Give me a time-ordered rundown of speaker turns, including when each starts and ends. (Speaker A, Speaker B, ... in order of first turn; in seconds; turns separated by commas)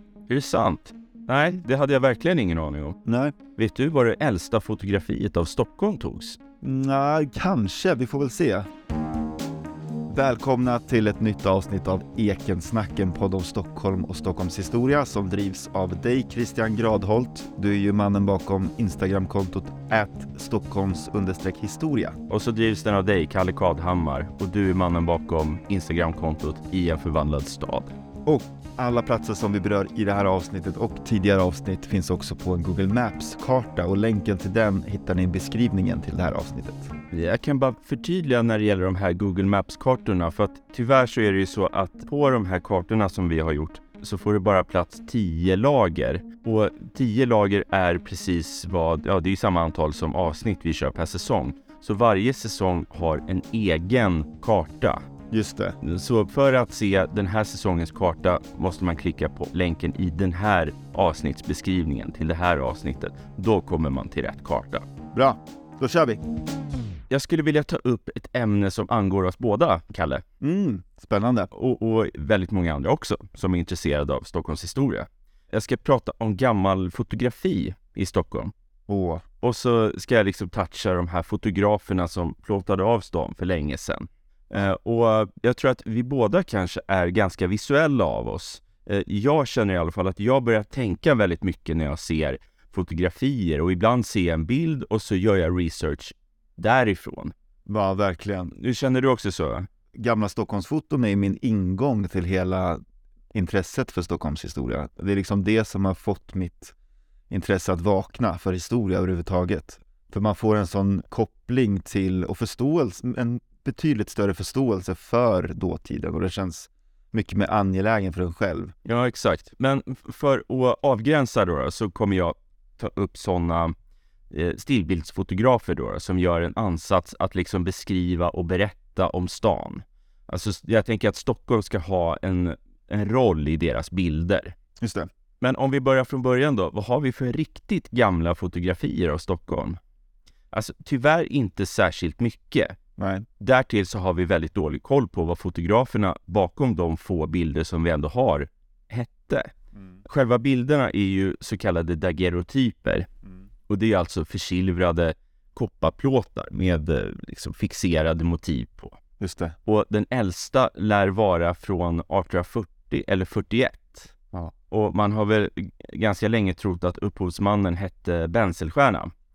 Speaker A: 0.3-3.0, Speaker B: 3.0-3.4, Speaker A: 3.5-6.4, Speaker B: 6.6-8.7, Speaker B: 10.1-22.2, Speaker A: 22.3-27.9, Speaker B: 28.2-36.9, Speaker A: 37.1-55.0, Speaker B: 55.3-55.8, Speaker A: 55.8-64.8, Speaker B: 65.1-66.2, Speaker A: 67.1-70.2, Speaker B: 70.4-71.5, Speaker A: 71.5-78.5, Speaker B: 78.9-79.2, Speaker A: 79.4-97.3, Speaker B: 97.7-98.5, Speaker A: 98.5-99.7, Speaker B: 99.9-102.8, Speaker B: 103.3-106.7, Speaker B: 107.3-118.7, Speaker A: 118.8-123.7, Speaker A: 124.3-134.5, Speaker B: 134.8-135.1, Speaker A: 135.4-139.8, Speaker A: 140.5-142.8, Speaker B: 143.0-143.2, Speaker A: 143.4-149.5, Speaker A: 150.0-153.1, Speaker A: 153.7-159.0, Speaker B: 159.2-159.6, Speaker A: 159.6-164.1, Speaker A: 164.7-169.1